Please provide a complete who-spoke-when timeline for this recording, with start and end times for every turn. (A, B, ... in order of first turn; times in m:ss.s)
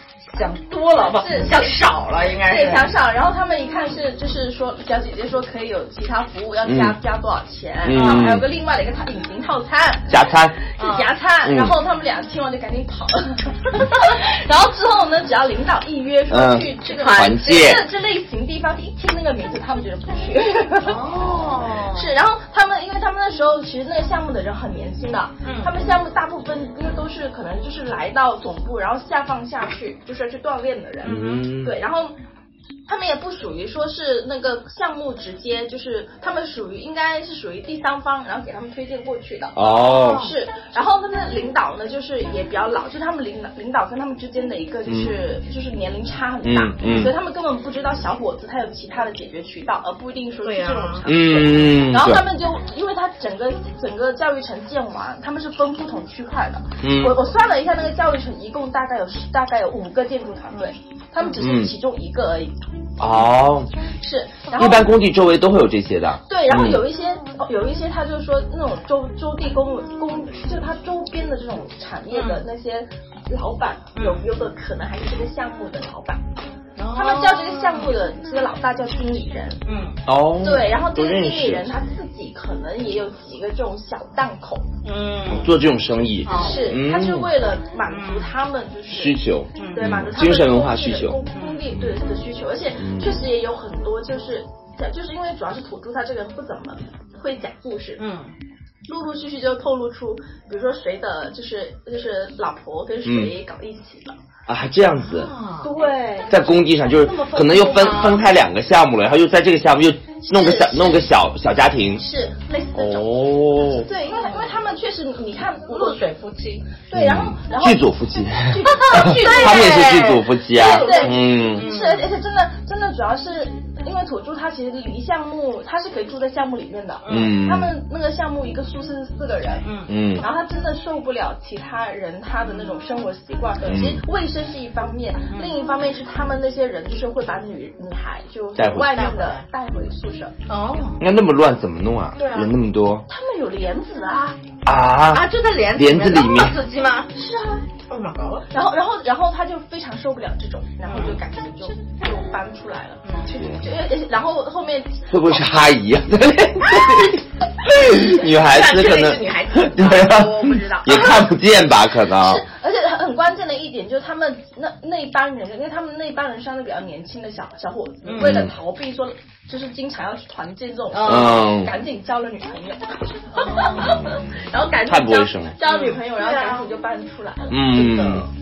0:00.3-0:02.9 A
0:01.0-0:01.7 B
0:02.4-0:21.0 B
0:06.6-0:07.0 C
0:07.8-0:08.5 C
0:07.9-0:08.4 A
0:10.1-0:10.6 C
0:10.8-0:11.1 A
0:11.4-0:11.7 C
0:16.3-0:17.8 C
0:16.8-0:17.7 A
0:20.8-0:22.1 A
0:21.9-0:32.1 B
0:25.4-0:25.7 A
0:31.0-0:31.8 C
0:31.1-0:31.4 A
0:32.9-1:02.5 B
0:39.6-0:40.3 C
0:39.8-0:40.3 A
0:44.9-0:45.1 C
0:46.4-0:47.1 C
0:50.4-0:51.0 A
0:51.0-0:52.2 C
0:56.8-0:57.2 C
1:01.4-1:01.7 C
1:03.0-1:03.7 C
1:04.0-1:04.9 B
1:04.6-1:06.8 C
1:06.3-1:16.2 B
1:12.1-1:12.4 A
1:14.0-1:14.2 A
1:16.8-1:17.9 A
1:16.9-1:19.6 B
1:19.6-1:20.0 A
1:20.0-1:21.7 C
1:20.4-1:24.7 B
1:24.8-1:25.5 A
1:25.3-1:27.3 C
1:26.2-1:26.7 A
1:26.3-1:29.2 B
1:27.9-1:28.3 A
1:28.9-1:31.2 C
1:29.6-1:29.9 A
1:29.7-1:38.0 B
1:31.3-1:31.6 A
1:31.7-1:32.0 C
1:32.8-1:33.2 C
1:38.0-1:38.3 A
1:38.9-1:44.1 B
1:43.0-1:43.3 C
1:44.5-1:45.3 C
1:45.0-1:45.7 A
1:45.6-1:48.1 B
1:46.3-1:52.0 C
1:47.4-1:48.2 A
1:50.2-1:51.0 B
1:52.0-1:56.0 B
1:52.7-1:53.9 C
1:54.1-1:54.6 A
1:55.7-1:56.6 A
1:56.9-1:57.9 B
1:56.9-2:01.7 C
1:58.4-1:59.8 B
1:58.6-2:02.1 A
2:00.5-2:09.6 B
2:07.0-2:07.3 A
2:07.1-2:07.7 C
2:09.6-2:09.9 A
2:09.9-2:10.2 C
2:10.2-2:20.3 B
2:12.4-2:12.7 A
2:13.6-2:14.0 C
2:15.3-2:15.6 A
2:18.6-2:19.0 C
2:18.9-2:19.4 A
2:20.5-2:21.0 A
2:21.0-2:23.0 C
2:22.2-2:22.5 B
2:22.2-2:22.5 A
2:23.1-2:24.4 B
2:24.6-2:26.6 C
2:25.1-2:27.1 A
2:27.1-2:27.6 B
2:27.9-2:28.5 A
2:28.5-2:35.5 B
2:30.9-2:31.2 A
2:33.4-2:33.7 C
2:35.1-2:42.4 C
2:38.0-2:40.3 A
2:39.9-2:41.3 B
2:42.2-2:57.8 B
2:48.0-2:48.4 A
2:48.2-2:48.5 C
2:50.9-2:51.4 A
2:51.0-2:51.7 C
2:53.3-2:54.0 A
2:53.8-2:54.2 C
2:54.8-2:55.5 C
2:55.6-2:56.7 A
2:57.5-2:58.3 C
2:57.7-2:58.3 A